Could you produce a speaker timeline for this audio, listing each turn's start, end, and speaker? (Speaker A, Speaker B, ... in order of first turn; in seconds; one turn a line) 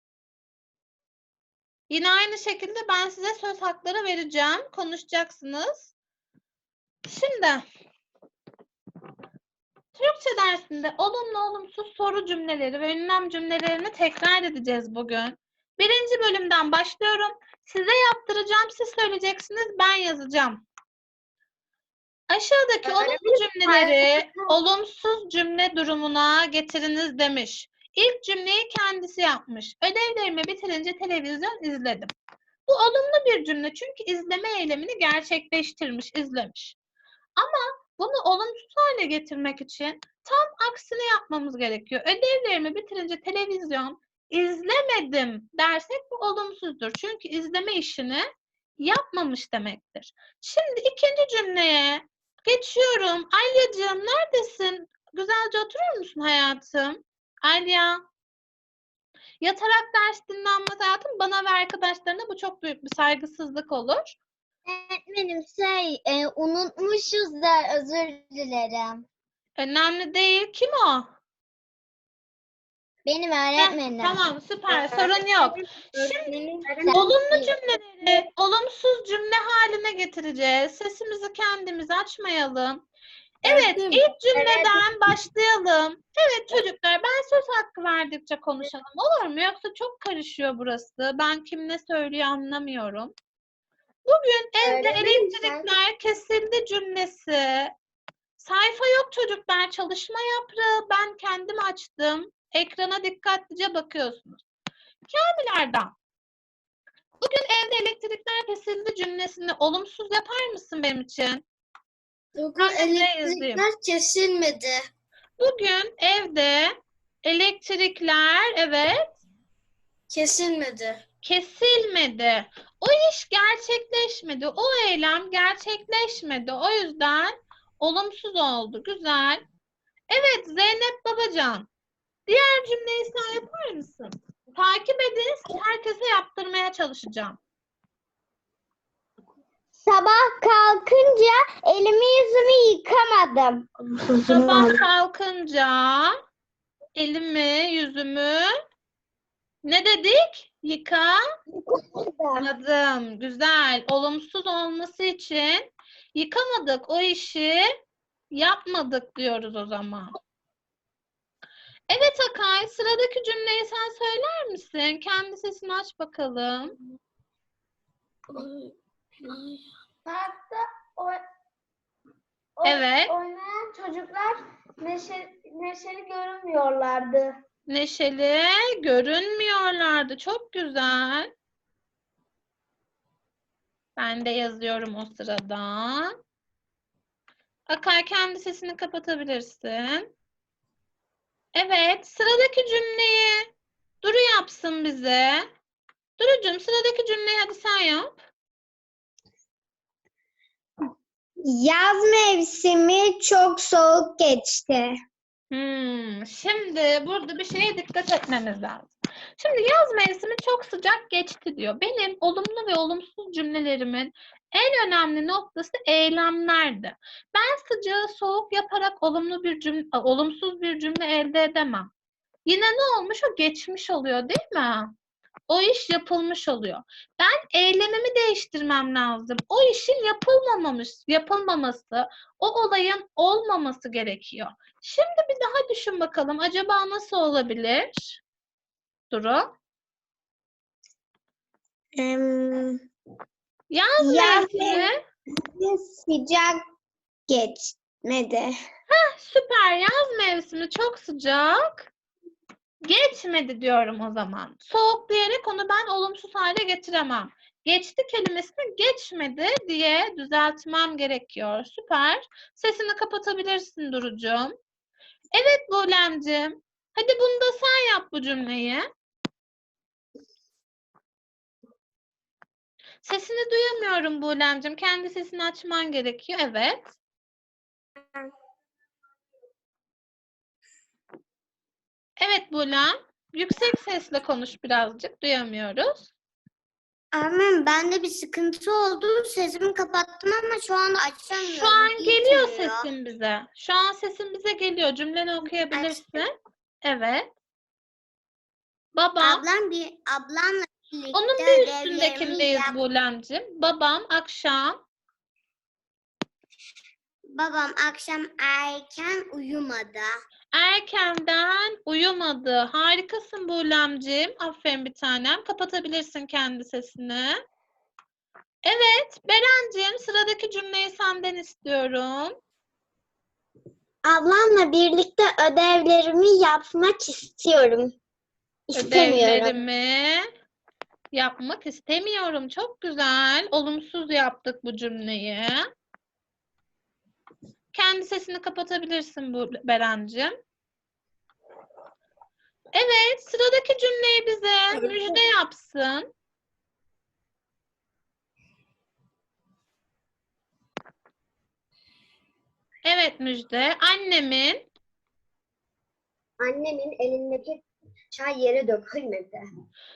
Speaker A: 1.9-5.9
Speaker A: 7.0-7.6
Speaker A: 9.9-20.6
Speaker A: 22.3-32.1
Speaker B: 22.9-24.5
Speaker A: 32.7-36.8
Speaker A: 37.4-48.3
Speaker A: 48.8-58.0
Speaker A: 59.4-64.2
Speaker B: 64.7-69.0
Speaker A: 69.6-71.1
Speaker B: 73.0-74.2
Speaker A: 73.6-76.3
Speaker B: 74.7-75.2
Speaker C: 76.0-76.4
Speaker B: 76.7-77.5
Speaker A: 76.9-82.8
Speaker A: 83.4-93.1
Speaker D: 83.5-84.1
Speaker B: 84.4-84.8
Speaker A: 94.0-97.7
Speaker B: 94.6-95.7
Speaker A: 98.4-104.4
Speaker A: 105.1-105.9
Speaker A: 107.2-111.4
Speaker D: 112.3-114.8
Speaker A: 112.6-113.7
Speaker A: 115.4-119.2
Speaker D: 120.1-121.0
Speaker A: 121.2-129.4
Speaker A: 130.1-131.7
Speaker A: 132.3-137.4
Speaker B: 139.8-143.7
Speaker A: 144.3-146.2
Speaker A: 147.0-148.5
Speaker A: 149.6-151.2
Speaker B: 151.5-152.5
Speaker A: 152.4-157.7
Speaker A: 158.3-160.1
Speaker A: 161.9-166.8
Speaker D: 168.3-168.6
Speaker D: 169.2-169.5
Speaker C: 170.1-171.2
Speaker C: 172.6-177.3
Speaker A: 172.6-173.2
Speaker A: 177.7-181.3
Speaker A: 184.0-186.2
Speaker A: 187.7-190.1
Speaker A: 191.6-193.5
Speaker A: 194.0-195.5
Speaker A: 196.2-198.2
Speaker B: 201.4-204.9
Speaker A: 205.5-221.9
Speaker A: 222.5-224.9
Speaker A: 225.5-238.2
Speaker A: 239.1-239.5
Speaker B: 242.0-242.8
Speaker A: 243.7-245.0
Speaker B: 244.0-246.6
Speaker B: 247.3-248.5
Speaker A: 248.9-251.9
Speaker A: 252.8-264.5
Speaker A: 265.3-268.9
Speaker A: 273.0-277.0
Speaker A: 282.2-286.1
Speaker B: 287.1-292.9
Speaker A: 291.3-297.3
Speaker B: 295.7-296.2
Speaker A: 298.9-299.4
Speaker B: 299.2-302.8
Speaker A: 301.1-304.8
Speaker B: 307.3-310.1
Speaker A: 310.5-317.4
Speaker A: 318.6-322.4
Speaker B: 324.0-327.9
Speaker B: 328.7-329.5
Speaker A: 328.8-330.3
Speaker A: 331.1-335.6
Speaker A: 337.7-340.4
Speaker A: 342.7-346.1
Speaker A: 352.9-354.7
Speaker B: 356.4-357.6
Speaker B: 358.1-359.4